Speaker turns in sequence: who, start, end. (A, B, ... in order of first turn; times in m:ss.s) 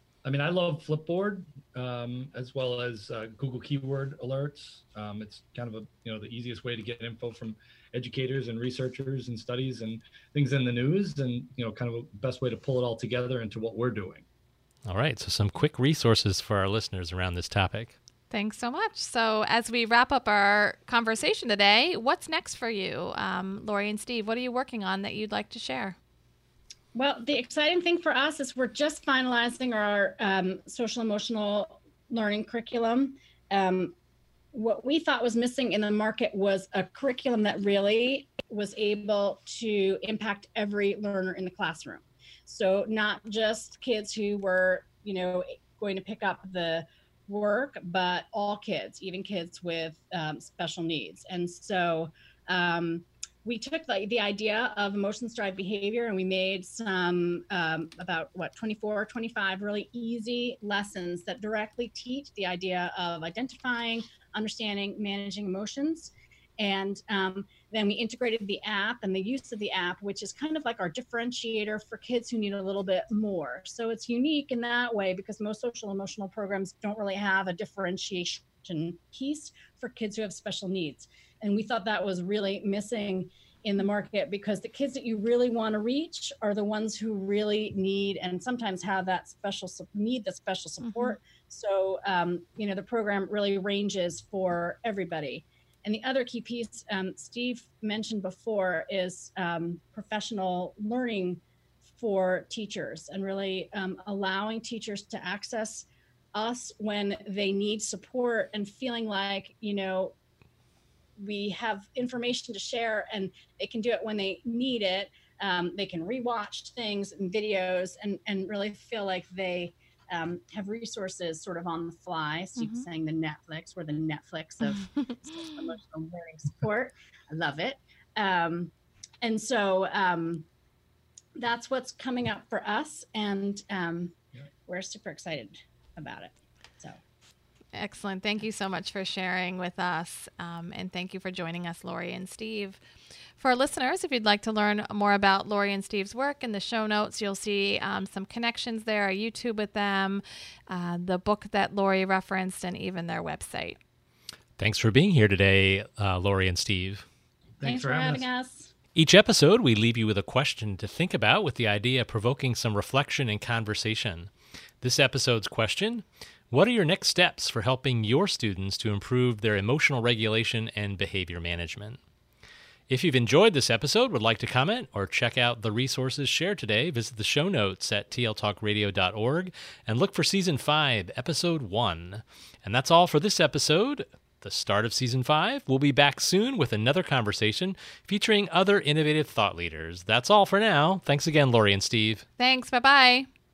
0:00.2-0:14.2 A
0:14.8-0:18.0 B
0:18.3-0:26.0 C
0:26.9-0:33.9 D
0:34.5-1:41.4 D
1:30.9-1:31.1 C
1:42.0-1:50.2 D
1:51.2-2:10.4 D
2:11.4-2:17.0 D
2:17.7-2:22.8 C
2:23.4-2:33.8 C
2:34.6-2:37.0 B
2:37.6-2:38.2 A
2:37.6-2:38.7 D
2:38.9-2:52.0 B
2:52.9-3:12.2 B
3:12.4-3:13.3 C